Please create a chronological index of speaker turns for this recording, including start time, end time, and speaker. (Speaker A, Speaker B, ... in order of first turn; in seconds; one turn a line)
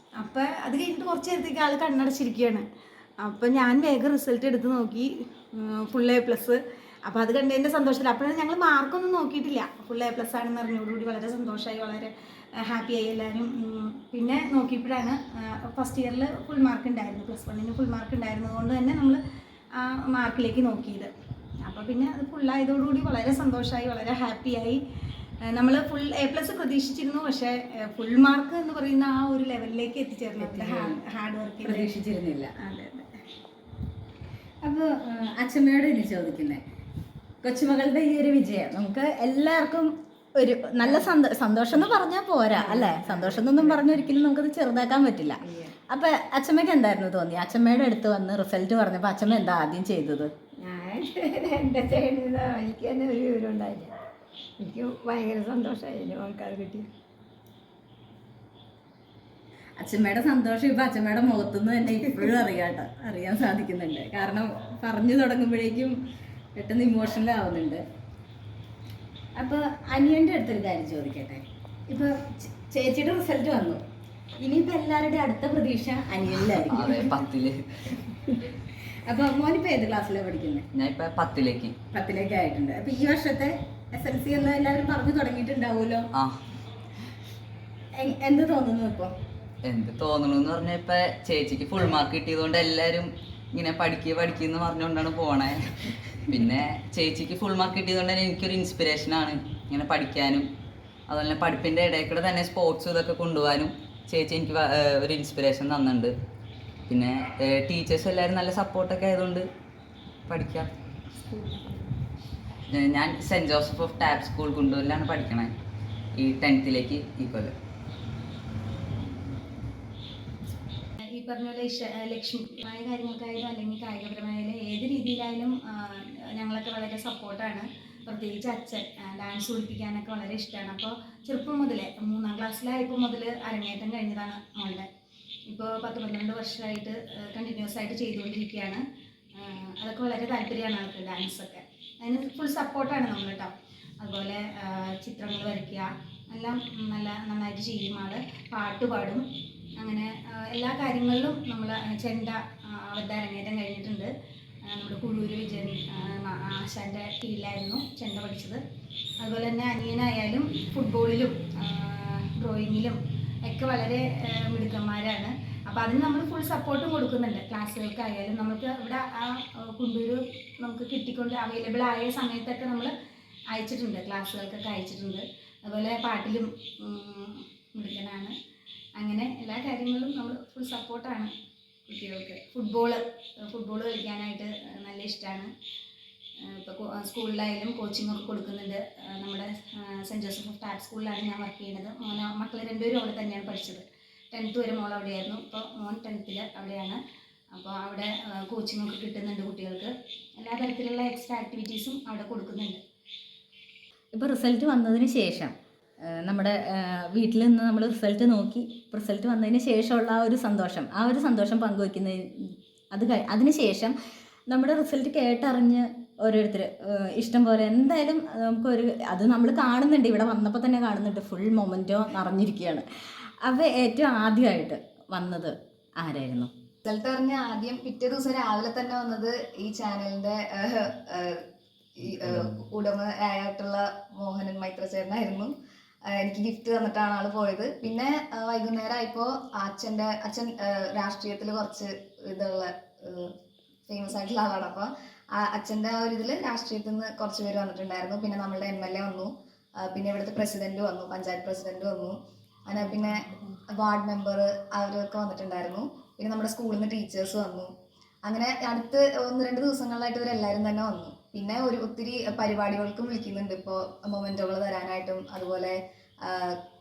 Speaker A: 0.2-2.7
Speaker A: 3.2-19.2
Speaker A: 19.8-21.1
Speaker A: 21.6-24.8
Speaker A: 25.5-31.9
Speaker B: 30.4-31.0
Speaker B: 31.6-32.5
Speaker A: 32.6-33.1
Speaker B: 34.6-36.6
Speaker B: 37.4-50.3
Speaker C: 42.6-43.6
Speaker C: 50.6-54.0
Speaker C: 54.6-56.9
Speaker B: 59.8-66.0
Speaker B: 66.6-67.8
Speaker B: 69.4-73.8
Speaker B: 74.4-77.2
Speaker D: 76.5-77.9
Speaker B: 78.0-80.7
Speaker D: 80.7-81.7
Speaker B: 81.9-86.1
Speaker B: 88.0-89.1
Speaker D: 89.7-100.5
Speaker D: 101.1-106.1
Speaker D: 106.9-109.5
Speaker D: 110.3-110.7
Speaker C: 111.2-111.9
Speaker D: 112.7-115.5
Speaker D: 116.2-117.5
Speaker A: 121.1-134.9
Speaker A: 135.5-138.8
Speaker A: 139.3-149.2
Speaker A: 149.8-154.1
Speaker A: 154.7-158.6
Speaker A: 159.2-172.9
Speaker A: 173.5-178.3
Speaker A: 179.0-181.3
Speaker A: 181.9-185.5
Speaker A: 186.4-197.0
Speaker A: 197.5-202.8
Speaker B: 204.2-213.9
Speaker B: 214.5-222.8
Speaker B: 223.4-226.5
Speaker E: 226.8-231.4
Speaker E: 232.0-235.5
Speaker E: 236.1-243.3
Speaker E: 243.9-257.7
Speaker E: 258.2-266.6